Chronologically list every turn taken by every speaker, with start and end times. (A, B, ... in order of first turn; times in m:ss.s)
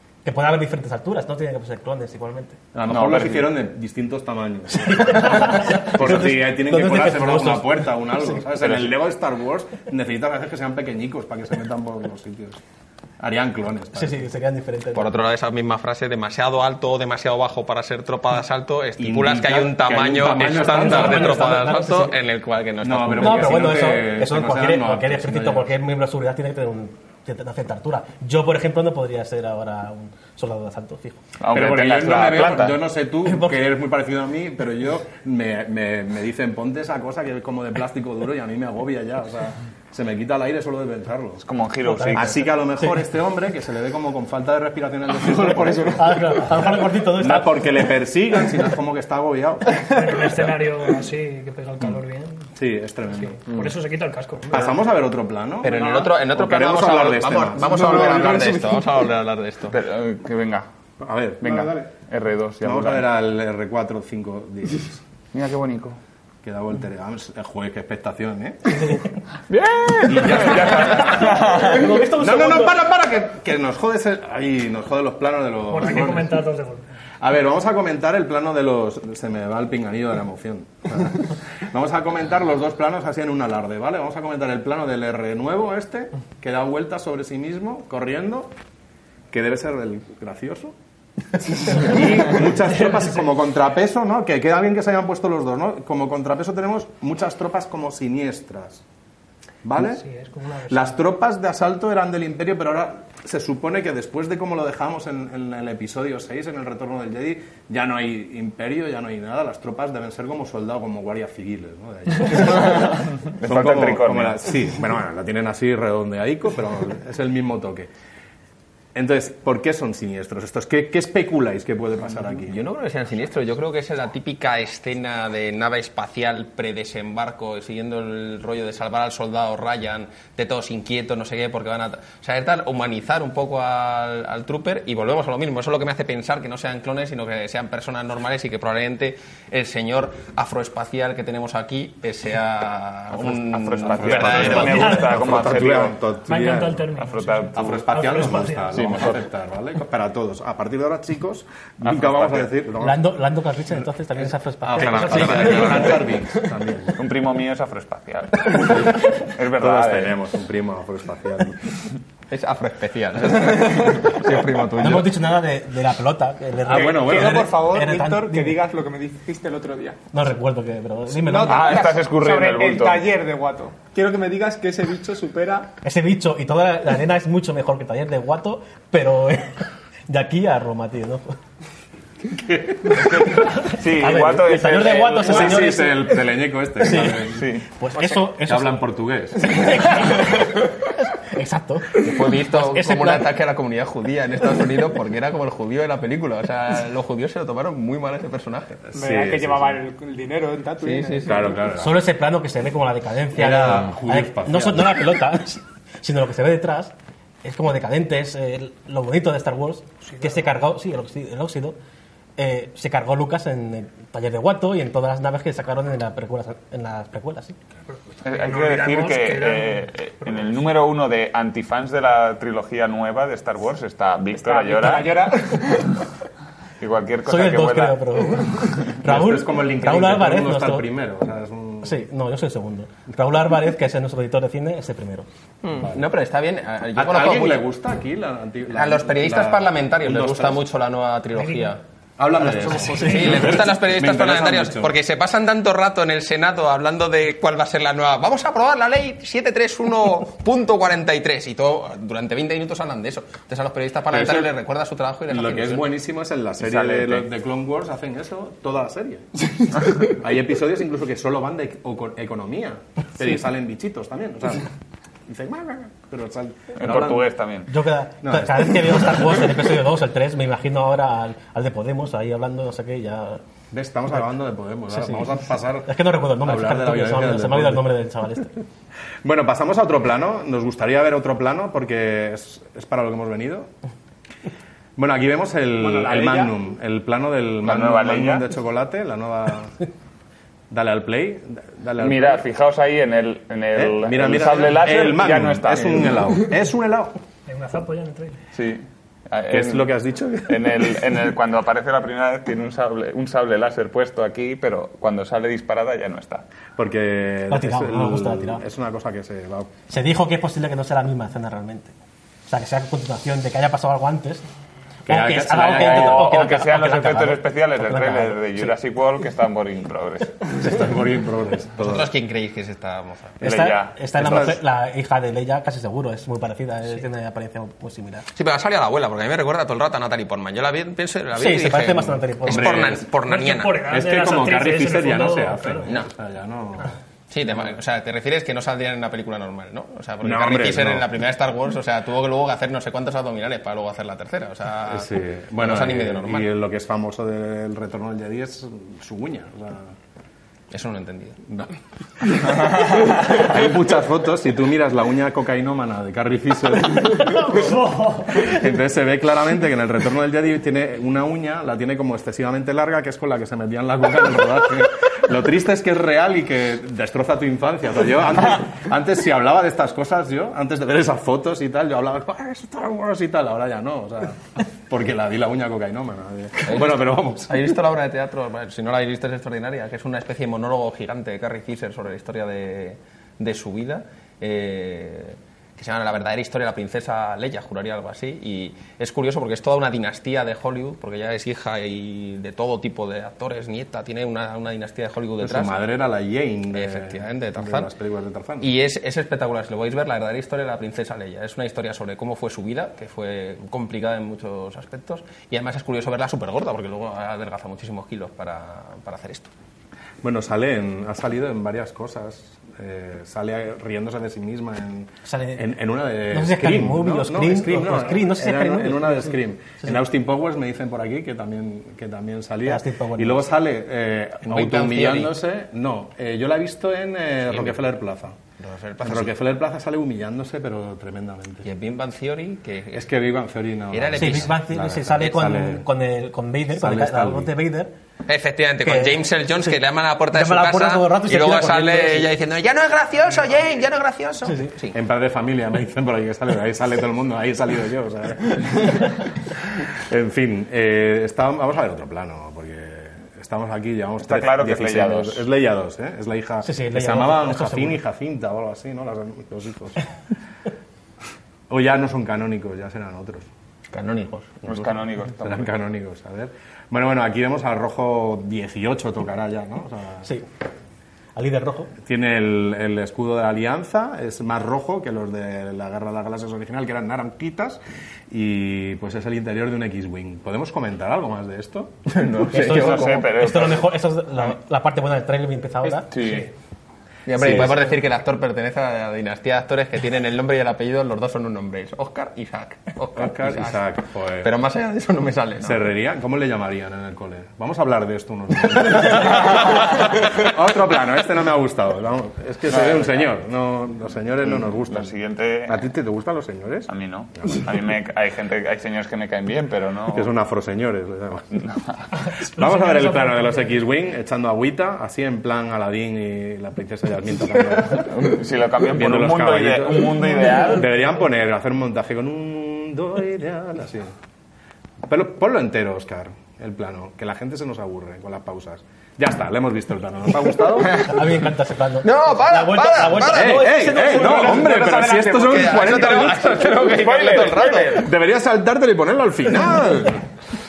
0:00.2-0:02.6 A
0:02.7-0:12.6 B
0:02.8-0:03.6 C
0:04.7-0:08.4 A
0:08.6-0:08.9 C
0:13.2-0:14.3 B
0:14.0-0:15.1 A
0:14.9-0:23.9 D
0:19.0-0:21.6 B
0:20.6-0:22.2 A
0:22.8-0:25.7 B
0:23.2-0:31.2 A
0:31.4-0:32.8 C
0:31.5-0:41.4 B
0:33.2-0:33.6 A
0:41.4-0:42.4 C
0:41.9-0:43.0 A
0:42.1-0:50.5 B
0:46.0-0:47.9 A
0:49.8-0:52.5 E
0:52.6-0:53.7 B
0:53.2-0:54.7 E
0:54.5-0:58.7 B
0:55.6-0:59.8 D
0:59.7-1:00.7 C
1:01.0-1:01.7 B
1:01.4-1:03.1 C
1:02.6-1:05.0 B
1:05.3-1:06.0 C
1:06.4-1:09.1 B
1:09.5-1:11.9 C
1:10.0-1:16.4 B
1:11.3-1:12.8 A
1:15.7-1:16.8 E
1:17.2-1:28.6 B
1:29.3-1:30.8 B
1:31.4-1:38.8 B
1:39.6-1:40.0 B
1:39.8-1:41.0 E
1:40.7-1:57.9 B
1:52.4-1:54.4 C
1:59.0-2:02.6 B
2:02.4-2:25.2 D
2:23.2-2:26.0 C
2:23.9-2:26.9 B
2:24.6-2:25.0 E
2:26.3-2:28.8 E
2:27.0-2:27.8 C
2:27.5-2:33.1 B
2:28.7-2:29.2 C
2:31.8-2:32.5 C
2:32.8-2:36.0 A
2:34.6-2:37.0 B
2:34.9-2:35.7 E
2:35.1-2:35.9 D
2:36.9-2:40.2 C
2:38.6-2:39.0 B
2:39.6-2:41.8 B
2:42.3-2:45.1 D
2:44.8-2:48.6 A
2:46.6-2:47.5 B
2:46.7-2:50.0 F
2:50.1-2:51.8 A
2:51.1-2:55.7 F
2:51.5-2:53.0 C
2:55.8-3:01.4 A
3:02.4-3:03.0 B
3:02.9-3:06.2 A
3:03.0-3:05.7 C
3:05.2-3:07.5 B
3:06.8-3:08.8 A
3:07.3-3:07.6 C
3:08.4-3:09.7 B
3:09.4-3:13.3 A
3:12.0-3:18.9 D
3:18.9-3:19.8 B
3:18.9-3:21.5 F
3:20.8-3:21.5 D
3:21.2-3:22.0 B
3:21.7-3:31.8 A
3:23.4-3:25.1 B
3:32.4-3:37.6 A
3:38.2-3:45.7 C
3:38.3-3:40.4 E
3:44.4-3:46.0 F
3:46.8-3:48.2 C
3:47.3-3:50.8 A
3:49.0-3:52.0 B
3:51.8-3:55.3 A
3:55.6-3:57.6 D
3:55.8-3:56.1 B
3:56.9-4:00.6 B
3:58.7-4:01.8 D
4:01.4-4:01.7 E
4:02.2-4:05.0 B
4:02.4-4:15.8 D
4:02.8-4:03.5 A
4:03.0-4:03.4 E
4:14.1-4:14.5 B
4:15.3-4:24.7 B
4:16.6-4:17.2 C
4:25.3-4:27.2 B
4:26.8-4:27.7 C
4:27.7-4:33.4 A
4:28.2-4:29.4 B
4:33.7-4:37.9 B
4:34.9-4:35.3 A
4:35.9-4:38.5 A
4:39.2-4:43.7 B
4:45.0-4:49.8 B
4:45.8-4:46.6 F
4:47.6-4:48.5 C
4:50.7-4:52.4 B
4:52.0-4:56.3 C
4:53.8-4:57.2 B
4:57.5-4:58.4 E
4:58.5-4:59.9 C
4:59.5-5:01.0 B
5:00.5-5:06.4 C
5:06.8-5:09.7 B
5:07.5-5:08.6 A
5:09.9-5:11.9 A
5:12.5-5:14.4 A
5:15.1-5:16.5 B
5:15.1-5:18.7 A
5:15.6-5:20.4 C
5:20.6-5:22.1 B
5:21.8-5:23.4 D
5:23.4-5:28.3 A
5:23.4-5:24.6 C
5:24.2-5:24.5 B
5:28.3-5:33.8 D
5:31.4-5:32.9 A
5:32.5-5:33.1 B
5:33.2-5:35.9 E
5:33.8-5:36.9 B
5:37.3-5:46.5 D
5:40.2-5:41.1 B
5:44.8-5:49.9 B
5:50.7-5:51.4 D
5:51.5-6:17.8 B
5:57.6-5:58.2 E
6:16.6-6:35.7 D
6:35.4-6:38.7 B
6:36.7-6:37.9 D
6:38.6-6:49.5 D
6:50.2-7:08.4 B
6:55.2-6:55.6 A
6:56.3-7:00.0 A
7:02.6-7:03.5 A
7:04.5-7:05.4 D
7:07.5-7:07.8 D
7:08.6-7:09.3 D
7:09.0-7:11.7 B
7:11.6-7:13.1 D
7:12.9-7:15.8 B
7:13.9-7:14.6 D
7:14.2-7:17.9 A
7:16.8-7:17.5 B
7:18.3-7:25.0 D
7:18.8-7:19.2 A
7:20.3-7:22.3 A
7:24.4-7:24.7 A
7:24.9-7:29.2 B
7:29.8-7:40.0 B
7:34.3-7:35.4 C
7:36.6-7:38.0 A
7:41.7-7:43.5 B
7:43.9-7:44.5 D
7:44.6-7:45.7 C
7:44.7-7:50.3 B
7:51.4-7:51.9 A
7:52.0-8:02.0 B
8:02.1-8:03.3 D
8:02.5-8:06.1 A
8:02.5-8:03.9 C
8:06.1-8:06.5 C
8:07.3-8:13.8 D
8:07.4-8:07.7 B
8:07.4-8:07.9 A
8:13.2-8:14.5 B
8:14.4-8:15.8 D
8:15.6-8:25.1 B
8:18.9-8:20.4 D
8:22.7-8:23.3 C
8:24.5-8:25.8 C
8:25.7-8:27.6 B
8:26.9-8:30.3 C
8:30.1-8:31.6 B
8:31.6-8:32.0 C
8:32.2-8:33.5 E
8:32.5-8:38.1 B
8:37.9-8:40.9 C
8:38.9-8:44.1 B
8:45.1-8:51.1 B
8:50.9-8:54.4 A
8:52.0-8:58.1 D
8:53.3-8:56.9 B
8:53.8-8:55.5 F
8:56.7-8:58.0 C
8:57.9-9:00.2 B